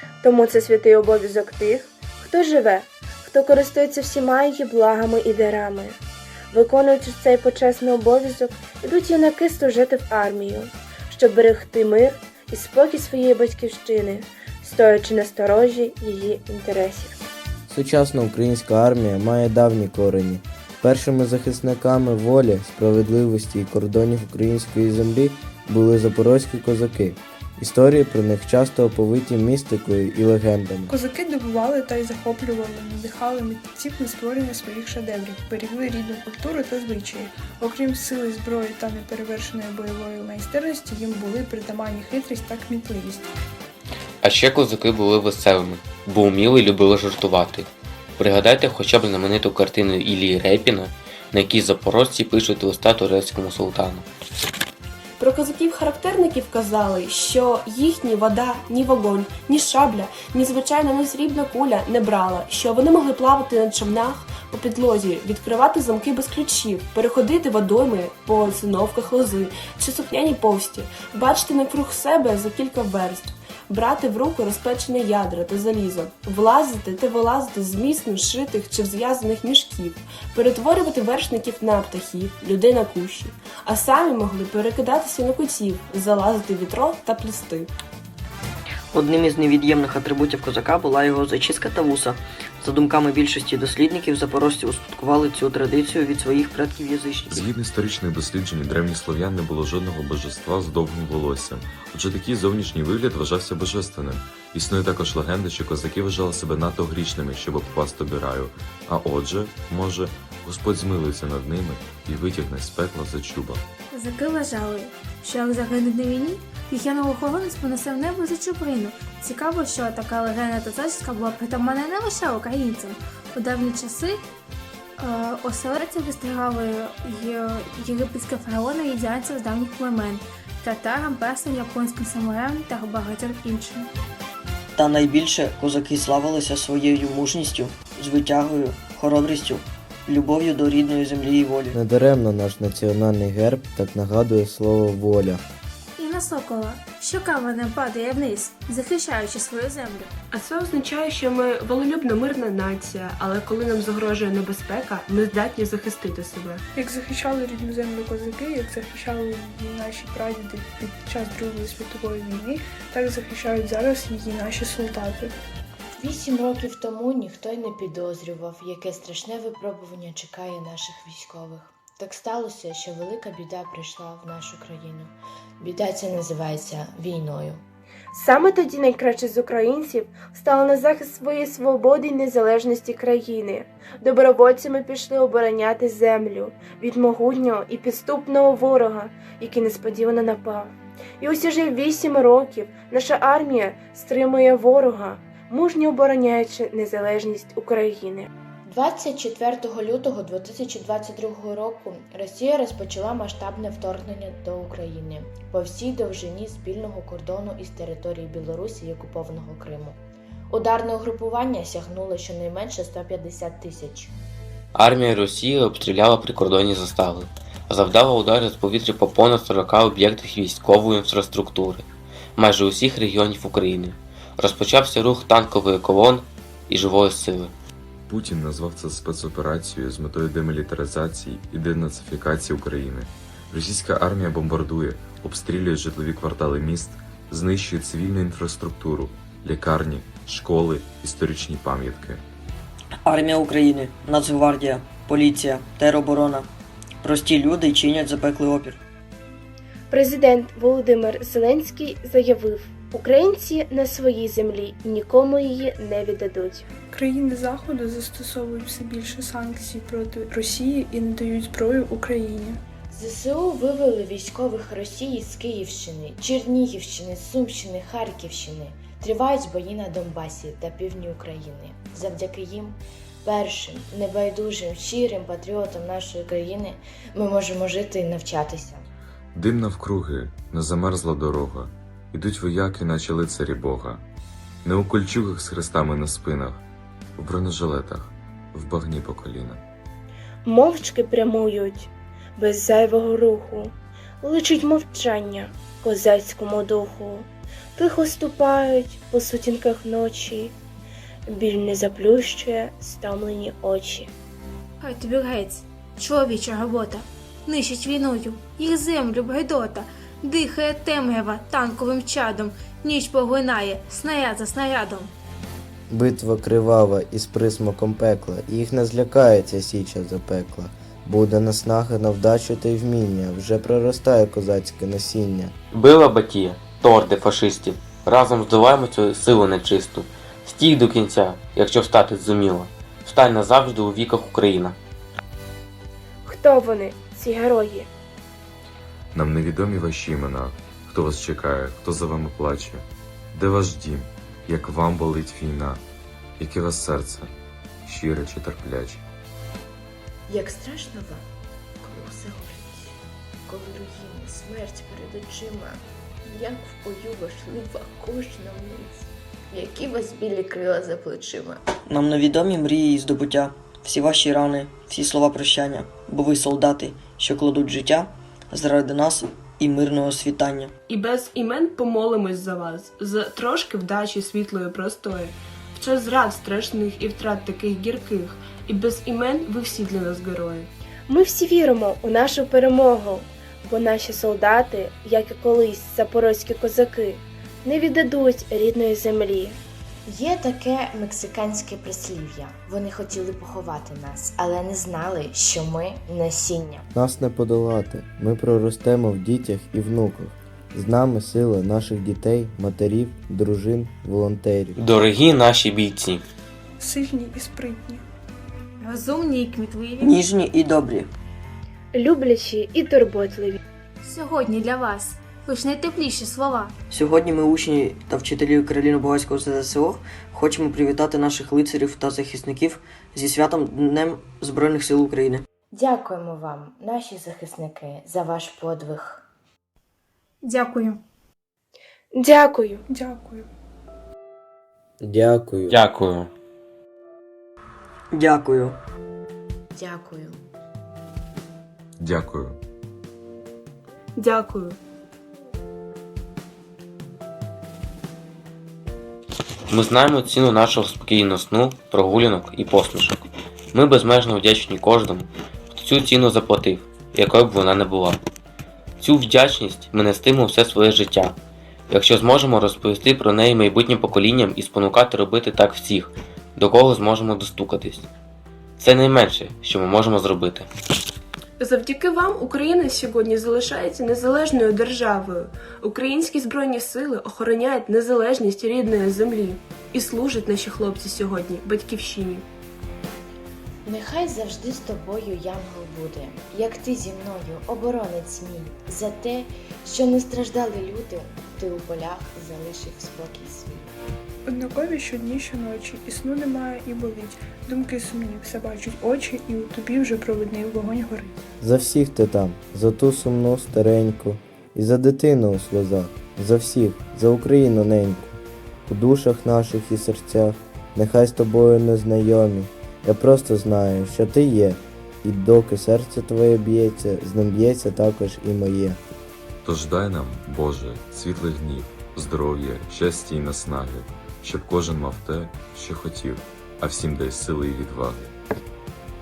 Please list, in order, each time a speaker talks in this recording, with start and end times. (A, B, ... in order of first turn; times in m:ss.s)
0:00.2-0:06.0 A
0:06.5-0:17.2 A
0:17.7-0:30.9 B
0:30.9-0:43.3 C
0:44.2-0:54.1 D
0:55.2-1:27.7 E
1:28.9-1:37.5 F
1:37.3-1:53.6 G
1:53.9-2:04.2 H
2:05.0-2:13.9 H
2:14.8-2:21.8 F
2:21.7-2:25.4 B
2:26.0-2:30.1 H
2:30.3-2:36.6 E
2:36.7-2:45.3 C
2:46.0-2:57.6 I
2:58.1-3:18.3 A
3:18.7-3:30.0 I
3:30.5-3:34.1 I
3:34.8-3:41.9 D
3:42.4-3:47.5 D
3:48.1-4:02.2 G
4:03.1-4:06.5 F
4:07.0-4:08.8 F
4:09.9-4:16.7 A
4:16.9-4:22.6 C
4:22.9-4:38.9 I
4:39.4-4:44.0 G
4:44.6-4:46.6 G
4:47.2-4:49.6 G
4:50.4-5:00.5 A
5:01.3-5:04.1 A
5:04.8-5:15.1 H
5:15.9-5:25.6 B
5:25.7-5:34.8 D
5:36.2-5:37.9 A
5:39.1-5:45.8 G
5:46.4-5:49.0 G
5:50.3-5:51.2 I
5:51.8-6:01.6 I
6:01.9-6:10.7 F
6:10.9-6:20.7 E
6:21.1-6:29.6 A
6:30.1-6:36.9 I
6:36.9-6:44.8 B
6:44.8-6:46.2 D
6:46.8-6:48.0 C
6:48.8-6:50.2 H
6:50.0-6:51.1 F
6:51.9-6:53.6 A
6:54.0-6:56.7 H
6:56.9-7:05.4 F
7:05.7-7:09.2 I
7:10.4-7:11.0 H
7:12.1-7:12.8 A
7:12.9-7:13.5 C
7:15.0-7:15.8 B
7:15.7-7:16.3 D
7:18.1-7:18.8 F
7:19.7-7:20.4 I
7:22.0-7:22.6 G
7:24.2-7:24.8 E
7:29.7-7:38.2 D
7:39.0-7:41.4 D
7:41.9-7:48.1 D
7:48.8-7:50.7 D
7:51.6-8:02.4 E
8:03.8-8:13.9 I
8:14.5-8:21.4 C
8:21.6-8:39.0 B
8:39.6-8:48.3 G